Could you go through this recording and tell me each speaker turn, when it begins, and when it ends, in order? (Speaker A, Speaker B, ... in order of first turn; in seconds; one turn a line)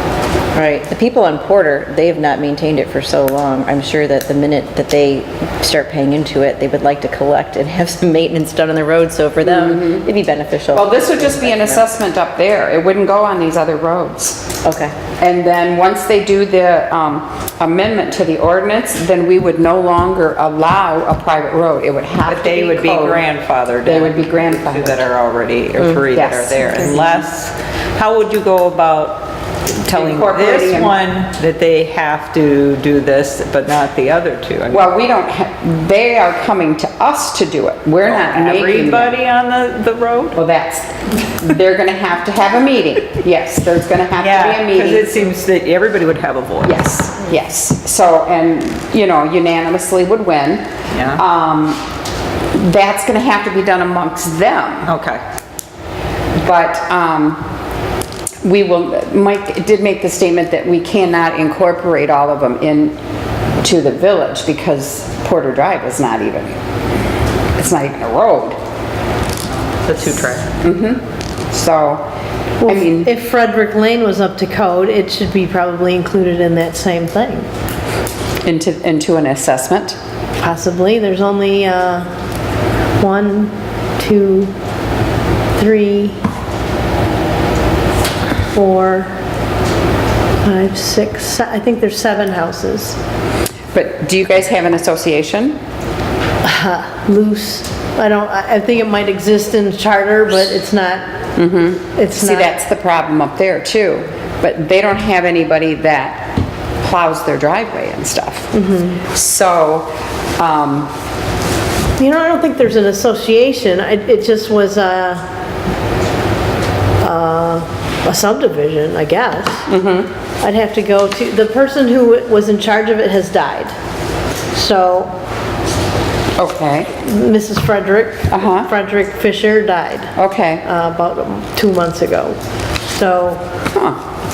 Speaker A: 0.5-11.9
Speaker B: 9.4-10.1
Speaker B: 10.7-14.4
Speaker A: 14.6-14.9
Speaker B: 15.2-23.2
Speaker C: 22.2-34.9
Speaker B: 23.8-25.0
Speaker B: 26.1-27.1
Speaker B: 29.9-31.0
Speaker B: 34.7-39.2
Speaker C: 38.0-40.4
Speaker B: 40.3-45.1
Speaker C: 44.2-46.8
Speaker B: 46.6-51.8
Speaker C: 50.9-51.2
Speaker B: 52.5-54.9
Speaker C: 54.9-55.2
Speaker B: 56.4-57.5
Speaker B: 58.4-63.0
Speaker B: 63.6-66.6
Speaker B: 67.6-68.6
Speaker C: 69.8-70.5
Speaker B: 70.6-72.1
Speaker D: 72.6-77.5
Speaker B: 72.7-73.1
Speaker B: 78.5-80.0
Speaker D: 80.4-82.1
Speaker D: 83.0-84.5
Speaker D: 85.6-86.2
Speaker D: 88.5-89.1
Speaker D: 90.4-93.0
Speaker B: 93.7-95.6
Speaker D: 96.4-101.3
Speaker B: 101.4-108.5
Speaker D: 102.0-102.5
Speaker D: 108.5-109.0
Speaker B: 109.0-110.9
Speaker D: 112.0-115.2
Speaker D: 117.0-119.7
Speaker B: 119.7-120.1
Speaker D: 120.4-123.8
Speaker D: 124.5-125.1
Speaker B: 126.4-126.9
Speaker D: 127.0-132.4
Speaker B: 128.3-128.7
Speaker B: 130.2-130.6
Speaker D: 132.9-133.4
Speaker B: 133.7-134.0